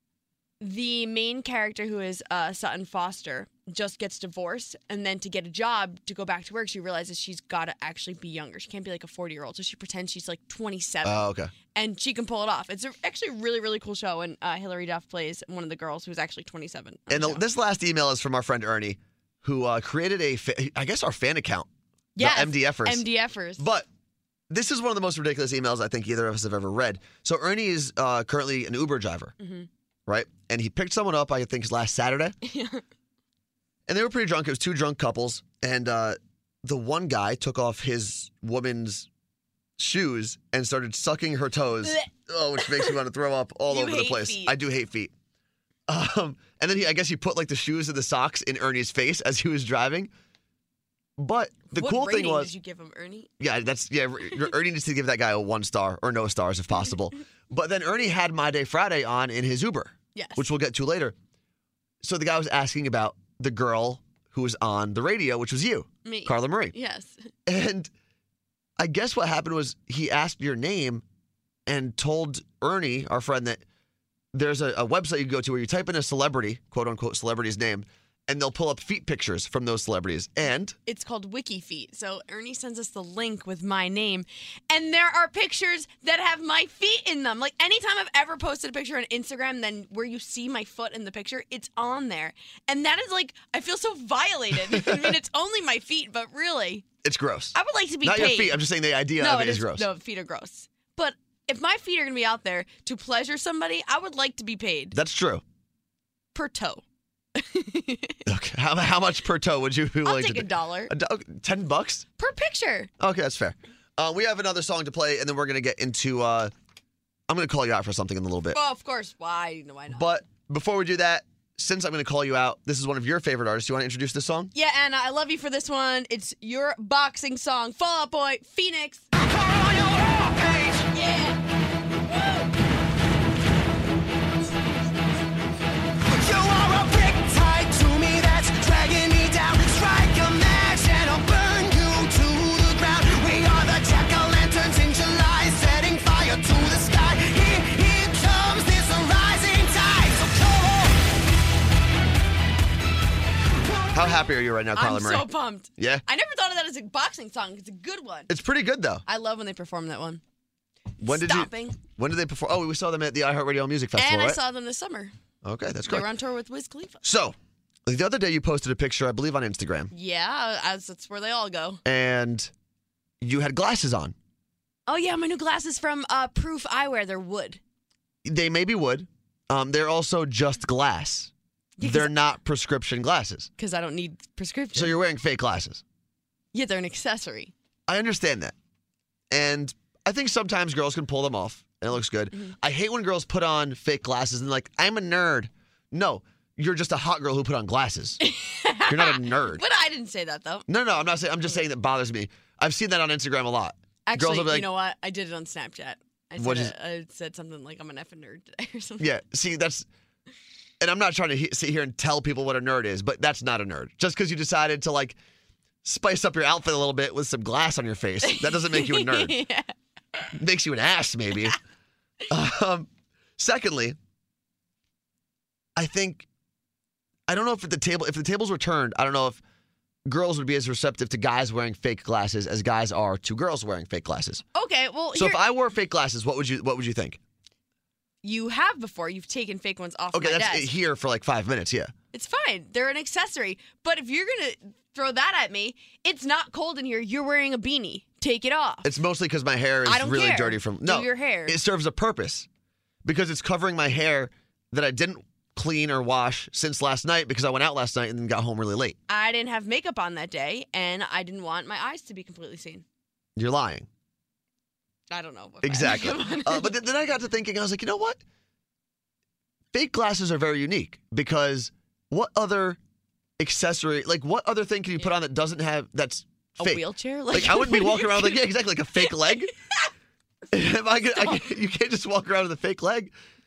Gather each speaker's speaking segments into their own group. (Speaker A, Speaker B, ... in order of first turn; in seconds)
Speaker A: 0.6-17.4, 22.2-23.6, 29.4-29.7, 32.4-32.8, 41.8-43.0, 43.7-44.6, 51.7-53.3, 60.1-60.5, 66.0-67.3, 80.9-96.9, 97.5-98.6, 99.2-105.0, 106.3-106.8, 107.3-108.2, 110.0-110.9, 112.2-112.9, 118.5-120.1, 124.5-129.1, 130.9-131.4, 132.2-132.4, 154.8-158.3, 159.1-160.2, 161.0-161.8, 164.0-165.1, 165.9-167.0, 169.9-171.8, 174.9-177.6, 181.8-182.2, 183.6-184.9, 186.5-187.5, 198.2-200.7, 204.1-209.1, 218.2-219.7, 234.5-235.4, 238.2-240.7, 242.1-248.9, 249.8-251.6, 259.1-262.8, 265.1-266.8, 276.6-278.4, 279.0-279.9, 281.1-281.4
Speaker B: 11.0-11.5, 17.1-23.1, 23.6-23.9, 24.5-29.3, 30.1-32.4, 33.9-39.1, 39.8-45.1, 45.9-50.1, 51.2-52.5, 53.4-61.1, 62.0-66.7, 67.5-67.9, 68.8-71.0, 71.7-73.6, 74.3-80.8, 94.7-95.2, 97.0-99.9, 104.9-105.4, 108.3-112.0, 113.0-116.5, 117.3-118.6, 119.9-124.5, 153.9-156.0, 158.3-159.0, 161.0-164.4, 165.4-166.1, 167.0-169.9, 171.8-172.5, 173.2-174.2, 178.2-183.5, 184.8-185.8, 187.9-188.6, 189.3-198.2, 198.9-199.6, 200.7-204.7, 206.4-206.7, 209.0-209.9, 210.8-215.2, 215.8-219.4, 220.3-221.6, 222.3-224.0, 225.8-226.3, 227.3-229.4, 230.1-234.4, 235.1-237.2, 240.1-241.9, 248.8-252.5, 253.0-259.0, 263.4-263.9, 265.6-268.2, 269.7-272.8, 273.4-279.5, 280.5-283.1
Speaker C: 129.2-130.9, 136.1-151.0